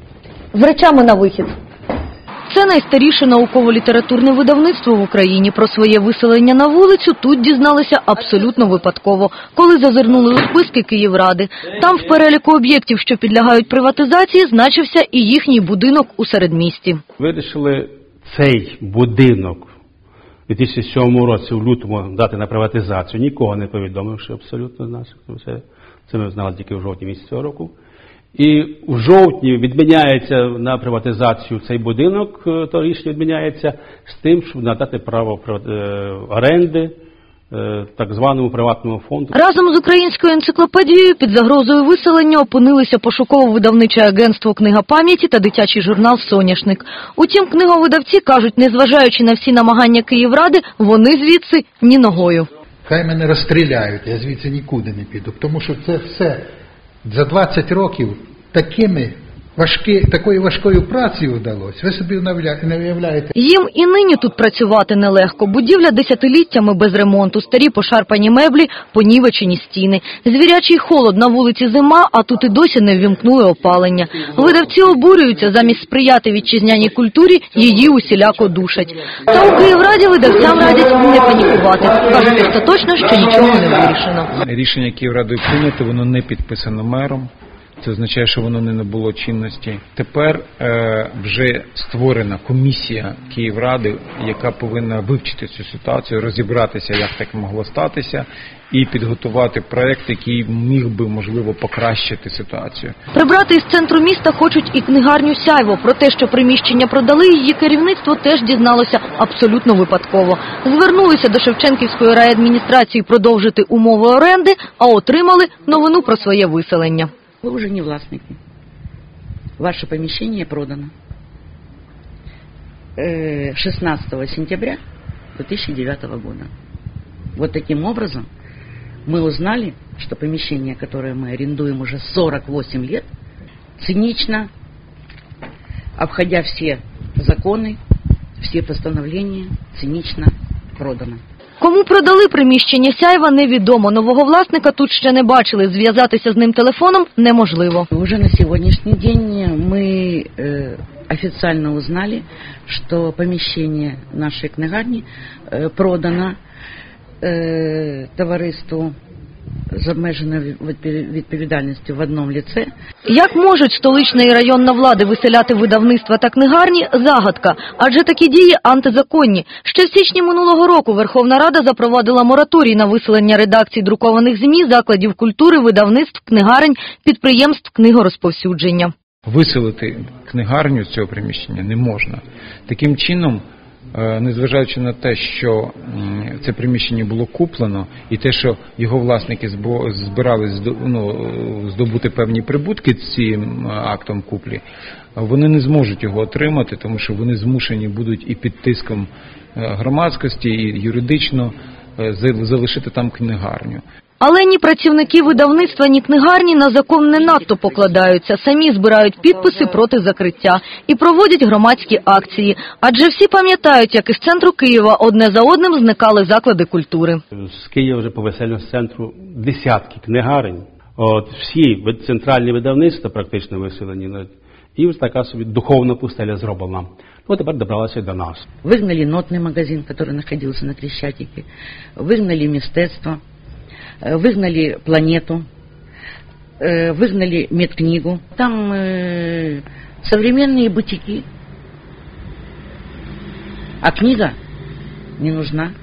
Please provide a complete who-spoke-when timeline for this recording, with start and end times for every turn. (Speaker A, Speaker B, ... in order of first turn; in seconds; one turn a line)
Speaker A: 0.5-1.5
Speaker A: 2.5-17.0
Speaker B: 17.2-19.7
Speaker B: 20.5-27.7
Speaker B: 28.3-36.9
Speaker B: 37.5-39.3
Speaker A: 39.3-52.5
Speaker C: 52.9-56.4
Speaker C: 57.1-63.3
Speaker A: 63.4-84.3
Speaker D: 84.4-102.9
Speaker A: 103.1-117.1
Speaker E: 117.4-118.4
Speaker E: 119.6-120.9
Speaker E: 123.0-124.8
Speaker E: 125.3-126.5
Speaker E: 127.3-128.3
Speaker E: 129.1-133.1
Speaker E: 133.8-134.5
Speaker E: 136.0-137.8
Speaker E: 138.4-141.2
Speaker A: 141.6-147.9
Speaker E: 147.9-156.4
Speaker E: 157.2-158.9
Speaker E: 159.7-162.7
Speaker A: 163.1-178.9
Speaker D: 179.2-194.6
Speaker D: 195.2-203.8
Speaker A: 204.2-217.2
Speaker B: 217.3-228.4
Speaker E: 228.6-231.4
Speaker E: 232.0-233.2
Speaker E: 234.0-235.4
Speaker E: 236.6-241.2
Speaker E: 243.8-244.3
Speaker E: 245.2-245.7